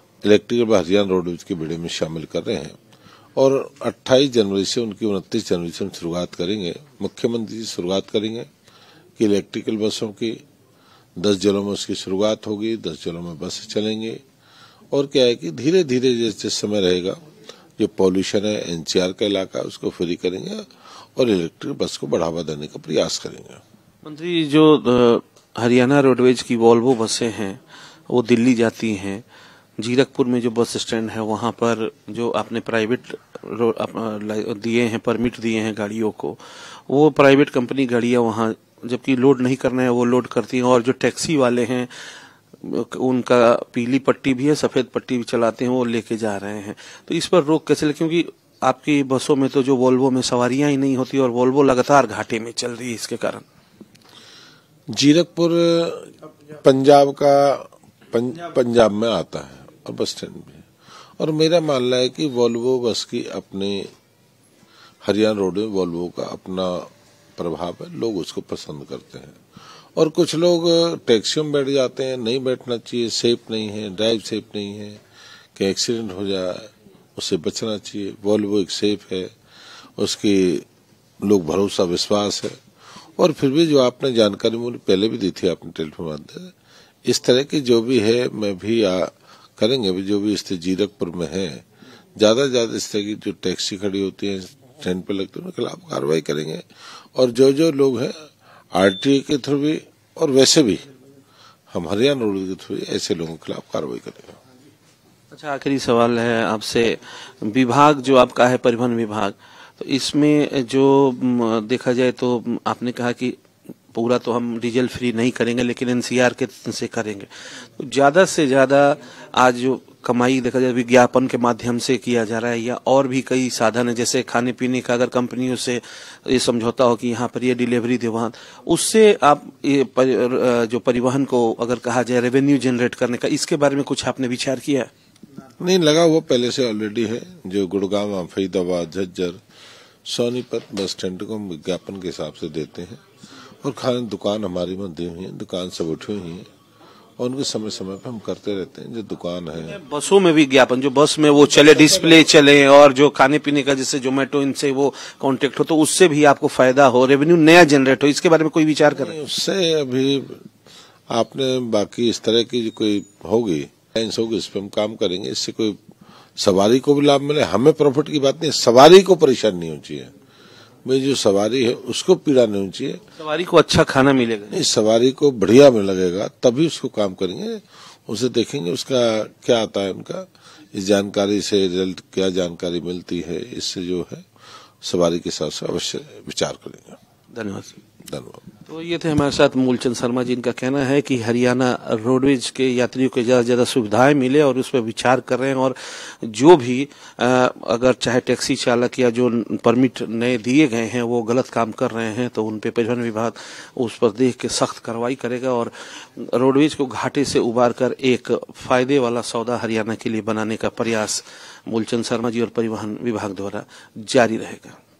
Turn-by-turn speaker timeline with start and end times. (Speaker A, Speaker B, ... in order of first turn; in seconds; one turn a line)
Speaker A: 0.2-2.8
Speaker A: 3.4-8.5
Speaker A: 9.2-10.4
Speaker A: 11.2-14.2
Speaker A: 14.9-17.2
Speaker A: 17.8-23.6
Speaker B: 24.0-29.2
Speaker B: 29.8-41.9
Speaker B: 42.6-53.4
Speaker A: 54.9-60.7
Speaker A: 61.2-63.9
Speaker A: 65.0-69.4
Speaker A: 70.0-75.0
Speaker A: 75.5-79.3
Speaker A: 80.0-80.6
Speaker A: 81.2-82.6
Speaker A: 83.2-86.5
Speaker A: 87.0-96.6
Speaker A: 97.1-100.8
Speaker A: 101.7-104.4
Speaker B: 105.3-113.4
Speaker B: 113.9-134.9
Speaker A: 135.6-139.4
Speaker A: 140.0-143.0
Speaker A: 143.6-146.5
Speaker A: 147.2-149.8
Speaker B: 149.6-159.1
Speaker A: 158.9-160.4
Speaker A: 161.1-165.8
Speaker A: 166.4-170.1
Speaker A: 170.8-173.0
Speaker B: 173.2-174.6
Speaker A: 174.5-184.2
Speaker A: 184.8-187.0
Speaker B: 187.3-187.8
Speaker A: 188.1-188.4
Speaker B: 188.7-214.8